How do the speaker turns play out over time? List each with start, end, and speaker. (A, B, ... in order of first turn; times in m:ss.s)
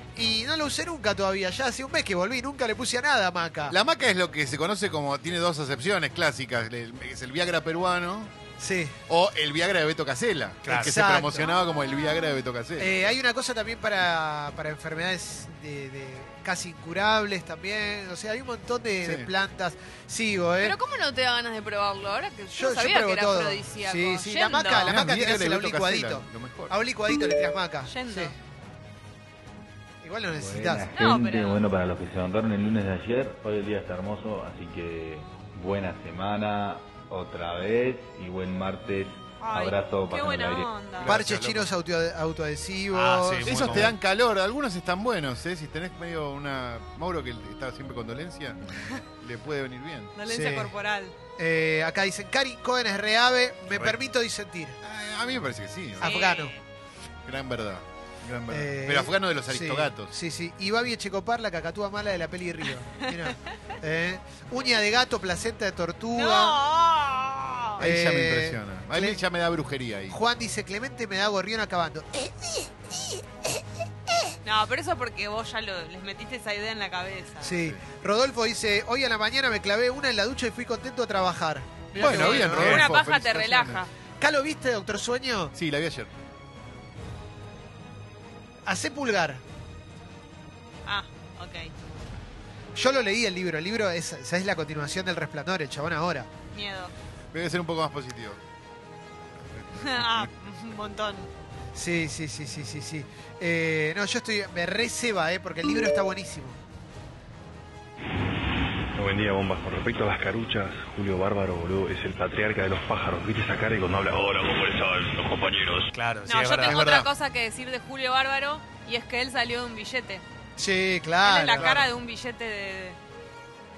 0:00.2-0:03.8 A
0:03.7-0:08.3 B
0:08.6-0:09.0 A
0:09.1-0:13.1 B
0:10.6-0:11.0 C
0:10.7-0:11.4 A
0:11.6-0:12.2 D
0:12.8-0:20.8 A
0:19.0-0:19.3 B
0:20.6-0:25.0 D
0:22.5-0:28.3 A
0:24.7-0:26.7 B
0:27.9-0:28.3 D
0:30.0-0:30.9 A
0:30.3-0:40.7 E
0:30.9-0:31.6 D
0:39.4-0:41.2 D
0:41.0-0:41.7 B
0:41.0-0:43.9 A
0:42.9-0:43.9 C
0:43.4-0:50.1 B
0:50.2-0:51.1 D
0:50.3-0:50.7 A
0:51.4-0:54.8 A
0:54.8-0:56.1 B
0:56.0-0:56.5 A
0:56.0-0:56.6 D
0:57.2-1:00.1 B
0:58.5-1:06.6 A
1:06.1-1:07.8 D
1:07.8-1:10.2 B
1:07.8-1:09.2 A
1:10.1-1:13.2 A
1:14.4-1:17.5 D
1:17.4-1:22.8 A
1:21.9-1:23.9 D
1:22.0-1:23.8 B
1:22.5-1:22.9 C
1:24.2-1:25.5 A
1:25.5-1:26.1 B
1:28.6-1:29.4 A
1:30.8-1:31.7 D
1:32.7-1:36.3 A
1:36.5-1:36.9 D
1:37.3-1:38.4 B
1:39.5-1:40.3 B
1:39.8-1:41.3 D
1:41.7-1:46.6 A
1:48.9-1:55.9 F
1:55.9-1:56.8 C
1:56.3-2:00.2 D
1:56.6-1:57.1 B
2:00.6-2:01.8 A
2:01.2-2:03.0 D
2:01.6-2:01.8 B